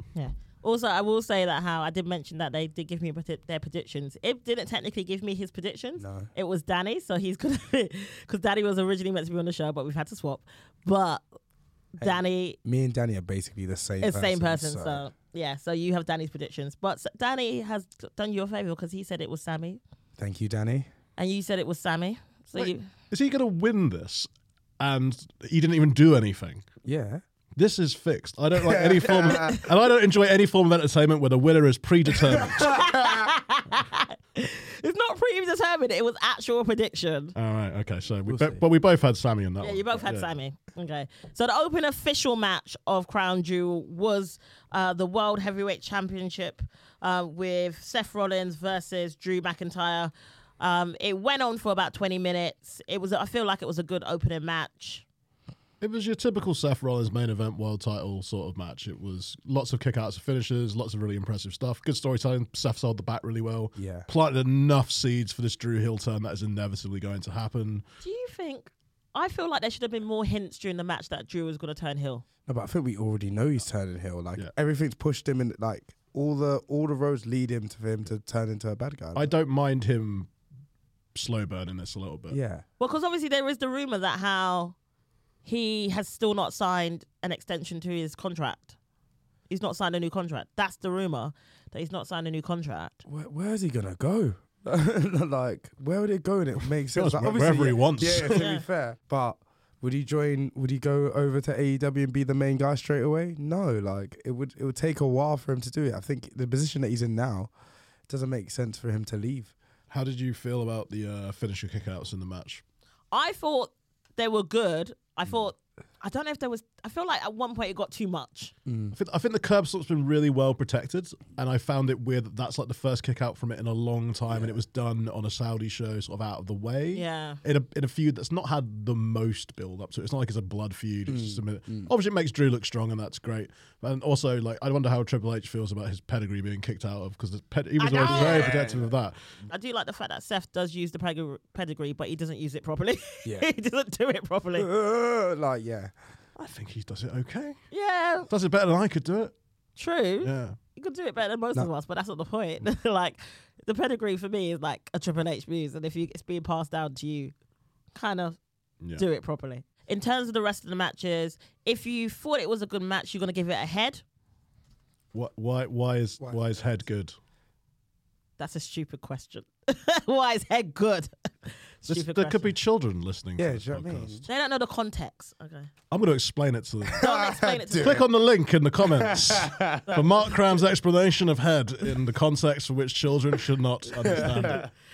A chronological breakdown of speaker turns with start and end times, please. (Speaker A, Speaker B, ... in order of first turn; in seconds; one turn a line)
Speaker A: 0.1-11.2
Speaker B: 6.0-6.3
Speaker A: 11.9-12.6
Speaker B: 12.0-15.0
Speaker A: 14.0-19.8
Speaker B: 20.2-20.9
Speaker A: 21.2-22.9
Speaker C: 22.6-24.3
Speaker C: 24.8-26.7
Speaker B: 26.8-27.2
Speaker C: 27.6-32.8
Speaker B: 28.6-29.6
Speaker B: 32.3-33.2
Speaker A: 32.6-37.3
Speaker C: 37.3-40.3
Speaker B: 38.3-38.6
Speaker A: 39.6-55.0
Speaker C: 55.8-67.8
Speaker B: 63.8-64.1
Speaker A: 68.0-72.2
Speaker B: 72.5-79.3
Speaker C: 79.1-80.3
Speaker C: 81.1-82.4
Speaker B: 82.3-82.6
Speaker A: 82.8-84.7
Speaker A: 85.4-88.7
Speaker A: 89.5-93.0
Speaker B: 93.0-107.5
Speaker C: 96.9-98.4
Speaker A: 98.3-98.6
Speaker B: 108.1-109.5
Speaker C: 109.9-112.6
Speaker A: 113.1-118.5
Speaker B: 118.7-118.9
Speaker C: 118.9-139.2
Speaker B: 124.3-124.6
Speaker A: 126.9-127.4
Speaker B: 131.1-131.9
Speaker A: 137.8-138.5
Speaker B: 138.0-138.9
Speaker A: 139.5-144.7
Speaker B: 144.6-145.9
Speaker C: 146.4-147.6
Speaker A: 147.7-148.3
Speaker C: 148.3-149.3
Speaker A: 149.8-157.3
Speaker C: 150.2-150.6
Speaker A: 157.9-158.4
Speaker A: 158.9-164.0
Speaker C: 165.1-167.1
Speaker A: 168.4-172.5
Speaker C: 171.9-174.2
Speaker B: 173.4-174.2
Speaker A: 174.3-175.7
Speaker C: 175.9-177.1
Speaker B: 176.8-178.0
Speaker A: 177.0-178.0
Speaker C: 177.8-184.7
Speaker B: 178.8-179.8
Speaker A: 179.8-180.3
Speaker B: 184.0-184.7